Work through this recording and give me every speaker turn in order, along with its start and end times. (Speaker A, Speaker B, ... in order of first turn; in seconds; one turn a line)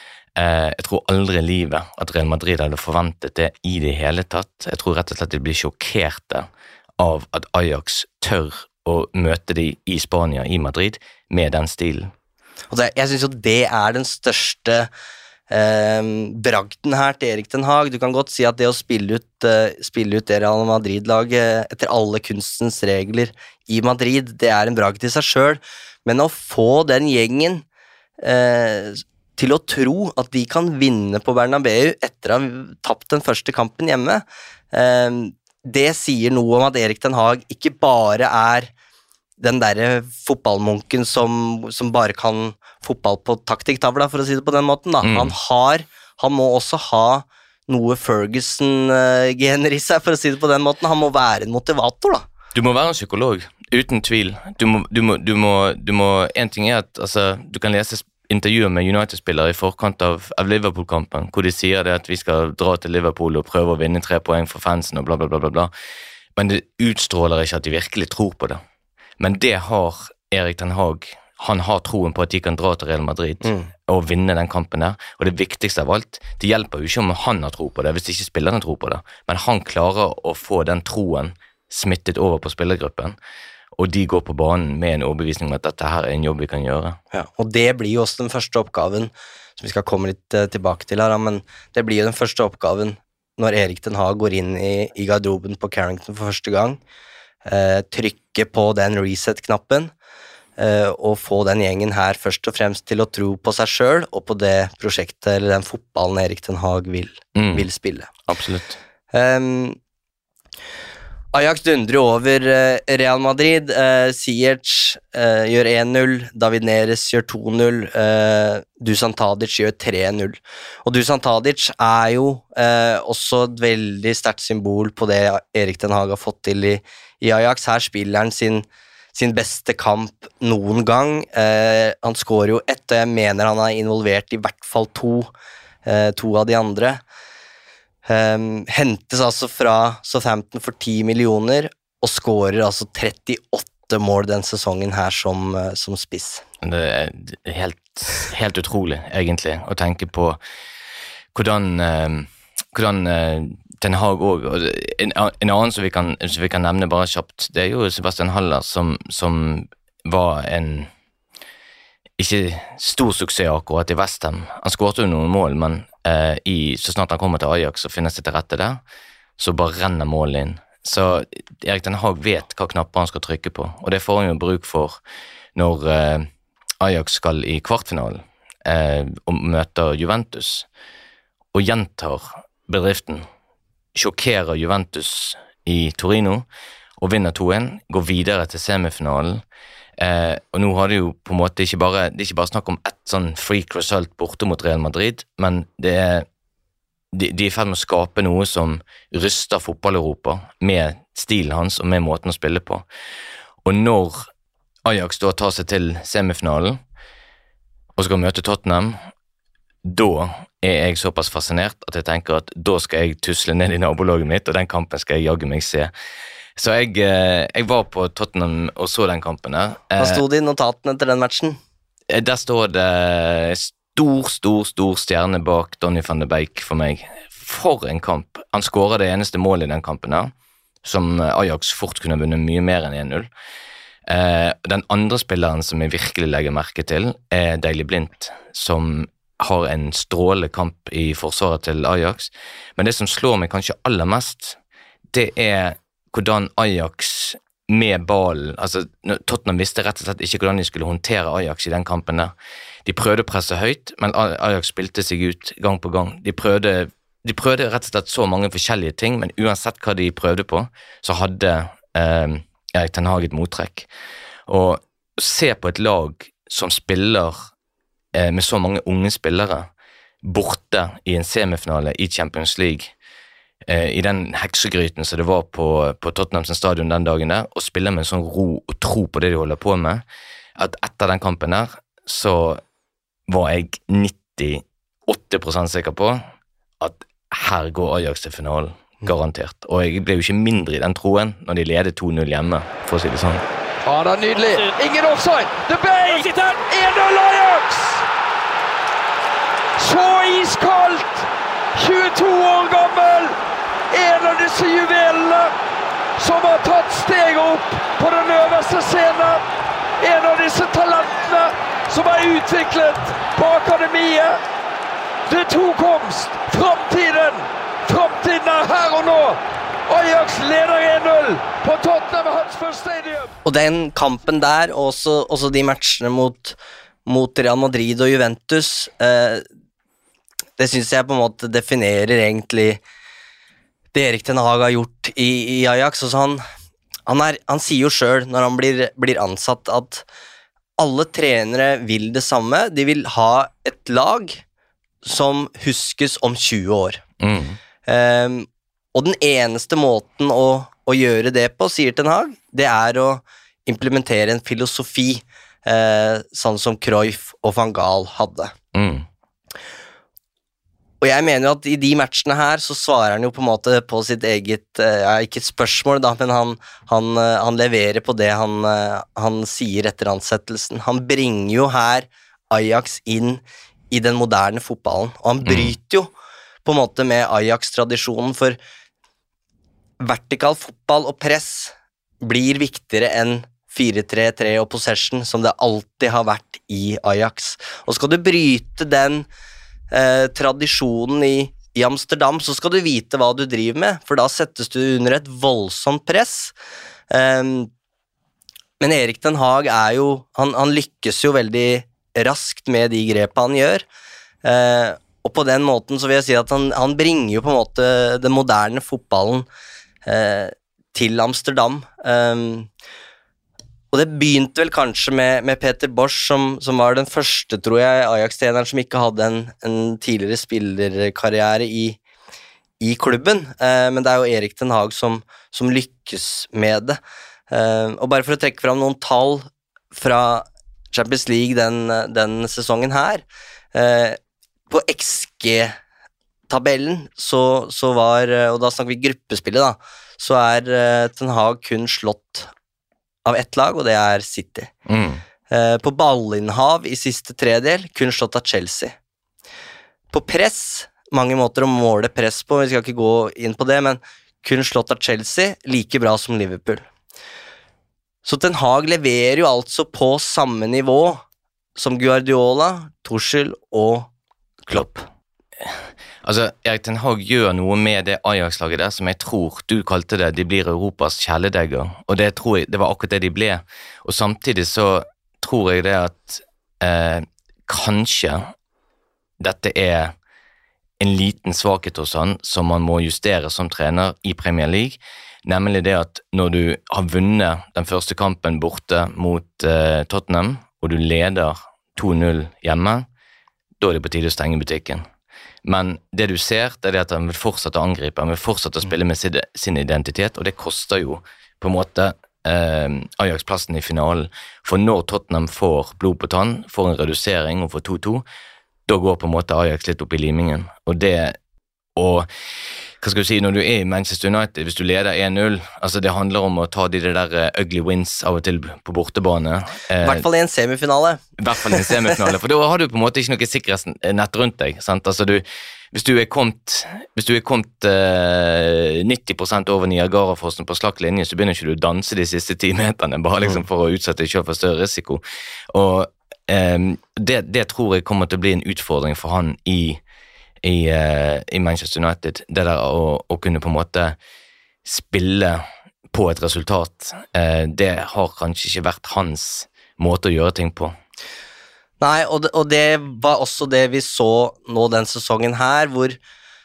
Speaker A: 0.3-12.1
Speaker B: 12.7-14.9
Speaker B: 15.5-27.6
Speaker B: 28.2-38.7
Speaker B: 39.4-52.2
Speaker A: 45.0-45.3
Speaker A: 52.5-65.7
Speaker A: 66.3-68.6
Speaker A: 69.2-83.2
Speaker B: 73.4-73.7
Speaker A: 83.7-87.0
Speaker B: 87.1-96.8
Speaker B: 97.5-99.9
Speaker B: 100.6-108.1
Speaker A: 107.3-107.7
Speaker A: 108.2-108.8
Speaker B: 109.1-109.8
Speaker B: 111.3-135.3
Speaker B: 135.8-137.0
Speaker B: 138.1-146.4
Speaker A: 146.6-150.4
Speaker A: 151.3-160.9
Speaker A: 162.2-168.8
Speaker A: 169.4-175.0
Speaker A: 175.5-176.3
Speaker A: 176.8-180.7
Speaker A: 181.5-183.3
Speaker A: 183.9-186.4
Speaker A: 187.0-189.4
Speaker A: 190.0-196.2
Speaker A: 197.1-202.8
Speaker A: 203.6-204.3
Speaker A: 204.8-206.8
Speaker A: 207.9-209.0
Speaker A: 209.8-215.9
Speaker A: 216.6-220.2
Speaker B: 220.0-221.6
Speaker A: 222.1-230.3
Speaker A: 230.8-233.3
Speaker A: 234.1-244.6
Speaker A: 245.1-252.3
Speaker A: 252.8-263.9
Speaker A: 264.5-267.5
Speaker A: 268.1-269.7
Speaker A: 270.2-272.9
Speaker A: 273.6-280.0
Speaker A: 280.6-282.6
Speaker A: 283.3-286.2
Speaker A: 286.8-293.4
Speaker C: 293.8-298.0
Speaker C: 299.8-303.4
Speaker C: 303.9-305.5
Speaker C: 306.2-309.4
Speaker C: 310.0-314.4
Speaker C: 315.3-323.3
Speaker B: 323.4-329.4
Speaker B: 330.6-332.8
Speaker B: 333.9-336.4
Speaker B: 337.1-340.0
Speaker B: 340.8-344.4
Speaker B: 345.0-347.0
Speaker A: 347.2-347.6
Speaker B: 347.9-358.5
Speaker A: 358.7-359.1
Speaker B: 361.0-376.1
Speaker A: 375.4-375.7
Speaker B: 376.6-378.6
Speaker B: 380.0-389.3
Speaker B: 389.9-396.5
Speaker B: 397.1-397.7
Speaker B: 398.8-403.8
Speaker B: 404.4-409.4
Speaker B: 410.1-412.7
Speaker B: 413.9-422.0
Speaker B: 422.8-427.0
Speaker B: 427.5-434.2
Speaker B: 434.7-435.7
Speaker B: 436.5-442.5
Speaker B: 443.2-444.7
Speaker A: 444.9-445.2
Speaker B: 445.5-448.9
Speaker B: 450.1-456.9
Speaker B: 458.2-461.2
Speaker B: 461.8-464.1
Speaker B: 464.7-465.1
Speaker A: 465.6-478.5
Speaker A: 479.4-480.1
Speaker A: 481.0-493.1
Speaker A: 493.8-495.1
Speaker A: 495.6-508.2
Speaker A: 508.9-511.4
Speaker A: 511.9-512.3
Speaker A: 513.0-520.2
Speaker B: 520.0-522.1
Speaker A: 521.4-540.0
Speaker A: 540.6-544.2
Speaker A: 544.8-550.9
Speaker B: 552.0-556.2